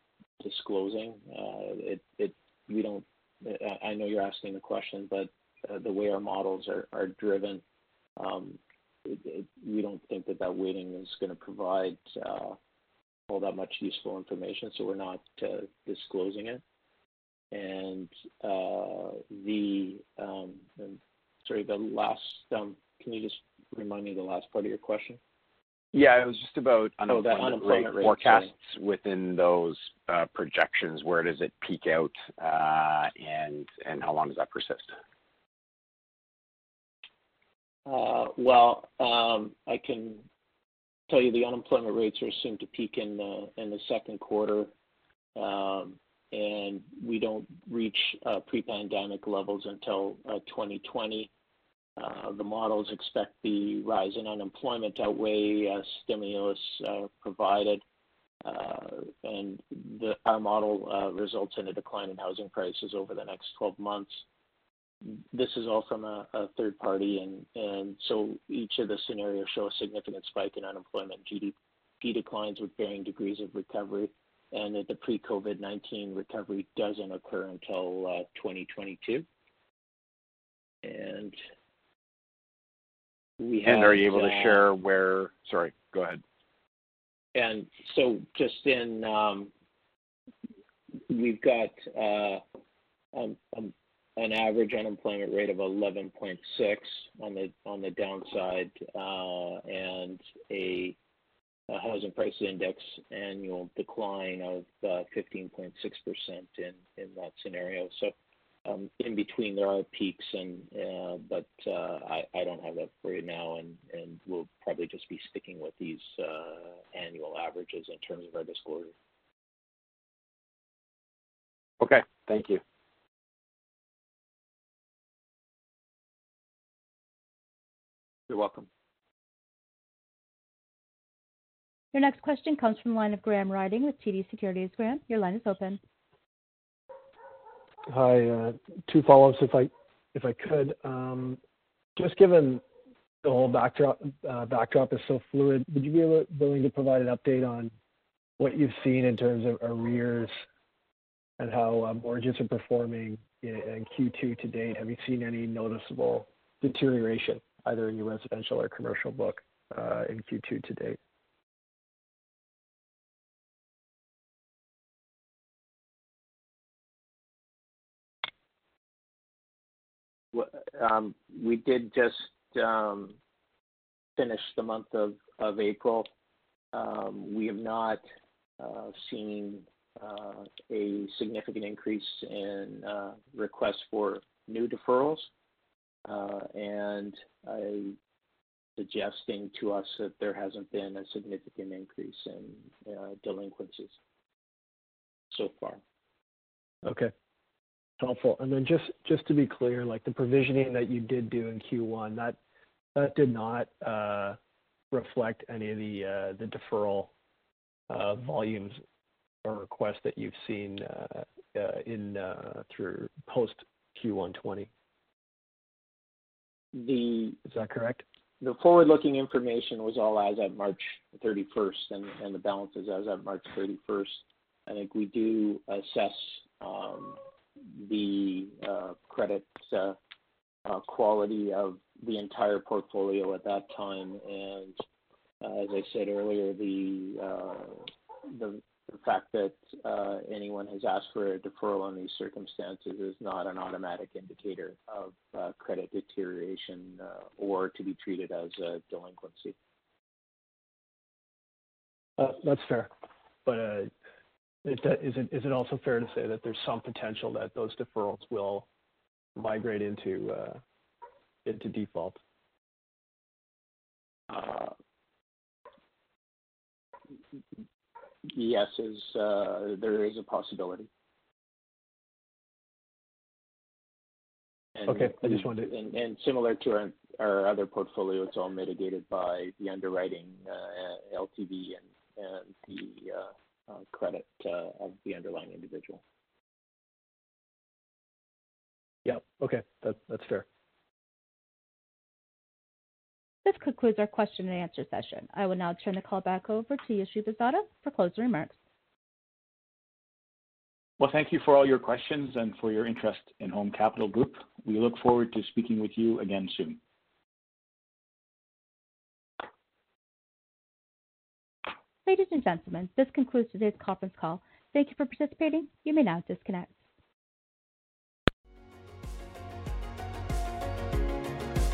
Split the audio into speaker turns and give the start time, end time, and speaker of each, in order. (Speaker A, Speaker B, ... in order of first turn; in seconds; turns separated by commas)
Speaker A: 0.4-7.6, Speaker A: 8.2-12.6, Speaker A: 13.3-16.6, Speaker A: 17.5-25.2, Speaker B: 25.9-34.9, Speaker A: 27.1-28.5, Speaker A: 37.9-40.2, Speaker A: 41.1-44.7, Speaker A: 45.4-51.3, Speaker A: 52.0-57.8, Speaker A: 58.4-64.2, Speaker A: 65.0-79.2, Speaker A: 80.8-81.4, Speaker A: 83.4-84.6, Speaker B: 83.7-86.2, Speaker A: 87.3-89.5, Speaker A: 91.1-92.4, Speaker A: 93.1-101.0, Speaker A: 101.7-108.1, Speaker A: 108.7-118.9, Speaker B: 121.8-122.6, Speaker A: 128.3-128.7, Speaker C: 131.9-135.8, Speaker D: 137.9-141.4, Speaker D: 142.0-142.6, Speaker D: 143.2-147.7, Speaker D: 148.4-150.3, Speaker D: 151.4-161.0, Speaker A: 170.3-173.2, Speaker A: 174.2-176.1, Speaker A: 176.7-178.0, Speaker A: 178.6-185.3, Speaker A: 186.1-187.9, Speaker A: 188.8-194.0, Speaker A: 195.3-195.8, Speaker D: 196.8-197.1, Speaker D: 198.0-202.4, Speaker D: 202.9-204.4, Speaker D: 204.9-207.1, Speaker D: 207.9-208.8, Speaker D: 209.4-214.7, Speaker A: 216.7-217.4, Speaker D: 217.5-218.0, Speaker A: 218.4-227.2, Speaker A: 227.7-230.0, Speaker A: 230.7-234.8, Speaker A: 235.4-249.6, Speaker D: 252.2-252.9, Speaker D: 253.4-253.9, Speaker D: 254.7-258.7, Speaker D: 259.4-260.6, Speaker D: 261.4-262.2, Speaker A: 264.3-264.7, Speaker A: 268.2-270.9, Speaker A: 274.8-286.0, Speaker D: 274.9-275.7, Speaker D: 289.1-290.5, Speaker C: 293.4-298.6, Speaker E: 301.0-306.8, Speaker C: 312.1-316.8